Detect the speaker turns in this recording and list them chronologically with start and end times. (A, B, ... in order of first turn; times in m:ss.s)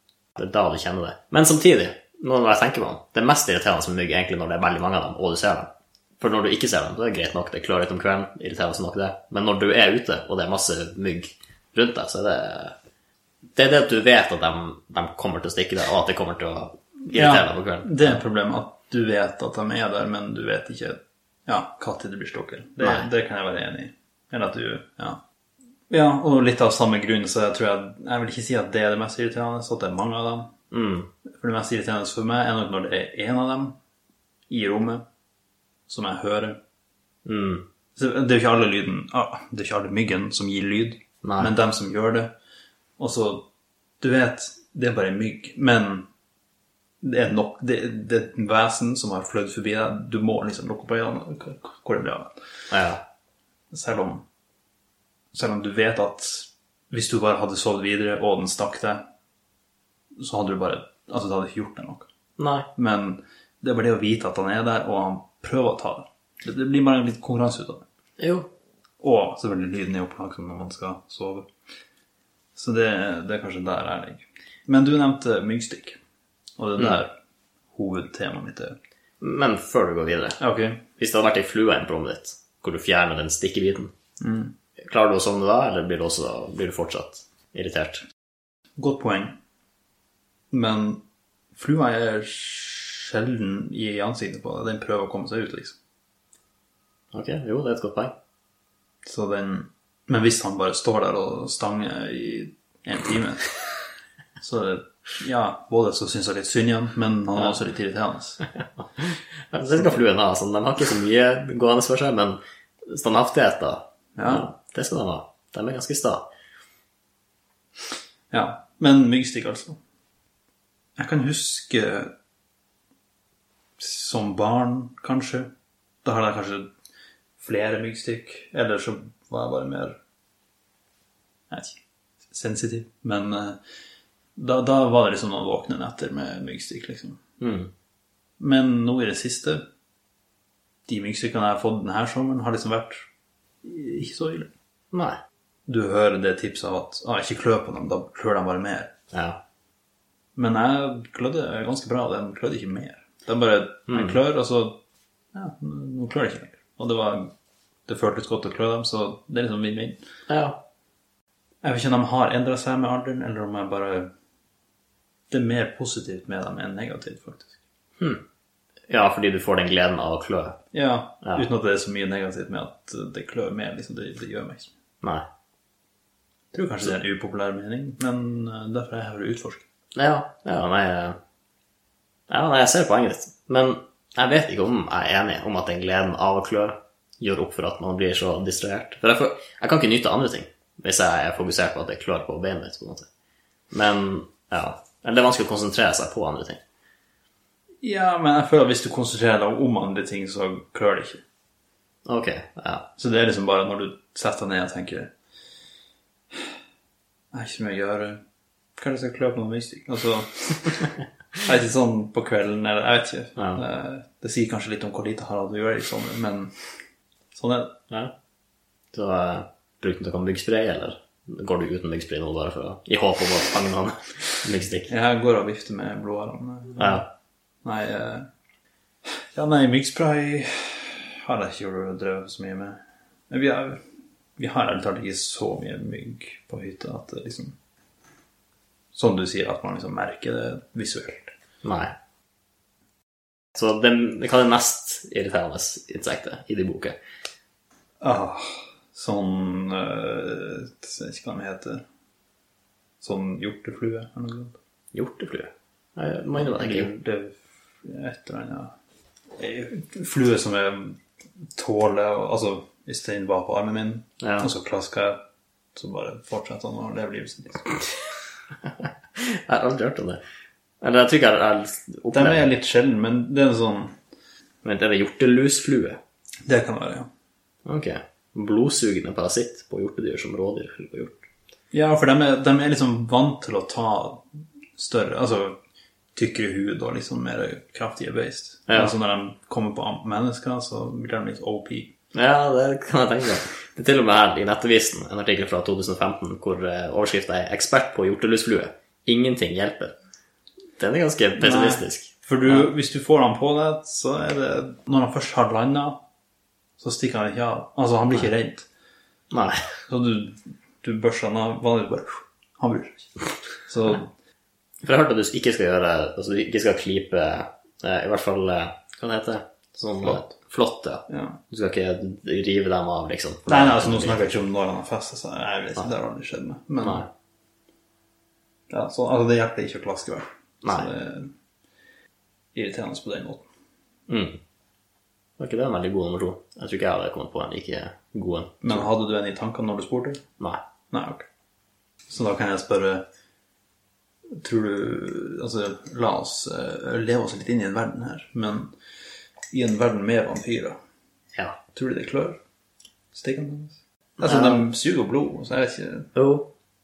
0:00.4-0:05.7 A
0:06.2-0:12.7 A
0:13.6-0:18.2 A
0:17.1-0:25.2 B
0:22.8-0:23.1 A
0:25.9-0:30.5 B
0:30.7-0:31.1 A
0:31.4-0:33.8 B
0:34.5-0:35.0 B
0:35.9-0:36.6 B
0:37.2-0:37.6 A
0:38.0-0:42.3 B
0:41.2-0:41.5 A
0:43.0-0:43.4 B
0:44.0-0:46.1 B
0:47.0-0:52.5 B
0:52.7-0:53.0 A
0:53.7-0:54.2 B
0:55.3-0:59.0 B
1:00.2-1:02.0 B
1:02.4-1:02.7 A
1:02.7-1:07.8 B
1:08.2-1:08.5 A
1:09.0-1:11.5 B
1:12.5-1:16.0 B
1:16.6-1:17.1 B
1:17.7-1:18.7 B
1:19.2-1:20.4 A
1:20.4-1:20.8 B
1:21.0-1:23.9 A
1:24.2-1:24.5 B
1:24.8-1:28.0 A
1:28.8-1:29.4 B
1:30.5-1:31.0 B
1:31.5-1:35.8 B
1:37.1-1:38.1 A
1:39.0-1:43.5 B
1:44.4-1:48.4 B
1:48.6-1:56.3 A
1:54.2-1:54.5 B
1:58.3-1:59.8 B
2:01.0-2:02.1 B
2:03.8-2:05.5 B
2:06.0-2:06.7 B
2:07.4-2:10.0 B
2:11.5-2:11.8 B
2:12.3-2:13.6 B
2:14.4-2:17.2 B
2:17.4-2:17.7 A
2:18.4-2:19.6 B
2:20.9-2:23.1 B
2:23.6-2:24.5 B
2:24.9-2:25.2 A
2:25.7-2:28.9 B
2:29.1-2:29.4 A
2:30.4-2:34.8 B
2:33.9-2:34.2 A
2:35.3-2:37.3 B
2:37.9-2:40.0 B
2:40.3-2:40.6 A
2:41.6-2:44.1 B
2:45.3-2:47.6 B
2:48.9-2:50.6 A
2:50.7-2:54.7 B
2:56.5-2:59.6 B
2:59.9-3:01.2 A
3:02.3-3:13.1 A
3:13.7-3:16.6 A
3:17.8-3:21.2 B
3:22.0-3:22.8 A
3:23.0-3:25.1 B
3:27.3-3:28.2 B
3:28.8-3:30.9 B
3:31.4-3:36.5 B
3:37.3-3:37.7 B
3:38.9-3:44.9 A
3:44.9-3:47.1 B
3:46.8-3:47.1 A
3:47.6-3:48.3 B
3:49.3-3:53.8 B
3:54.4-3:57.6 B
3:58.9-4:01.3 B
4:01.6-4:01.9 A
4:03.5-4:07.0 A
4:08.0-4:11.8 B
4:13.0-4:14.6 B
4:14.9-4:16.9 A
4:16.4-4:18.7 B
4:19.4-4:21.0 B
4:21.6-4:25.2 B
4:24.2-4:24.5 A
4:25.7-4:27.8 B
4:28.7-4:30.2 A
4:30.8-4:32.4 A
4:32.1-4:34.0 B
4:34.6-4:36.0 A
4:36.5-4:37.1 B
4:37.6-4:41.2 A
4:41.7-4:44.2 B
4:44.7-4:45.6 B
4:46.1-4:51.9 B
4:48.7-4:48.9 A
4:52.1-4:59.9 A
5:00.8-5:02.7 A
5:01.4-5:06.0 B
5:06.8-5:08.7 B
5:09.3-5:09.6 A
5:09.9-5:14.1 B
5:14.8-5:24.2 A
5:21.1-5:21.4 B
5:23.5-5:27.1 B
5:26.8-5:27.1 A
5:28.7-5:31.3 B
5:30.6-5:30.9 A
5:32.5-5:33.4 B
5:34.1-5:34.4 A
5:35.4-5:38.8 A
5:38.6-5:40.2 B
5:40.9-5:41.2 B
5:42.1-5:43.0 B
5:44.4-5:48.7 B
5:49.5-5:50.8 B
5:51.7-5:52.4 B
5:53.1-5:56.1 B
5:54.2-5:54.6 A
5:56.1-5:56.5 A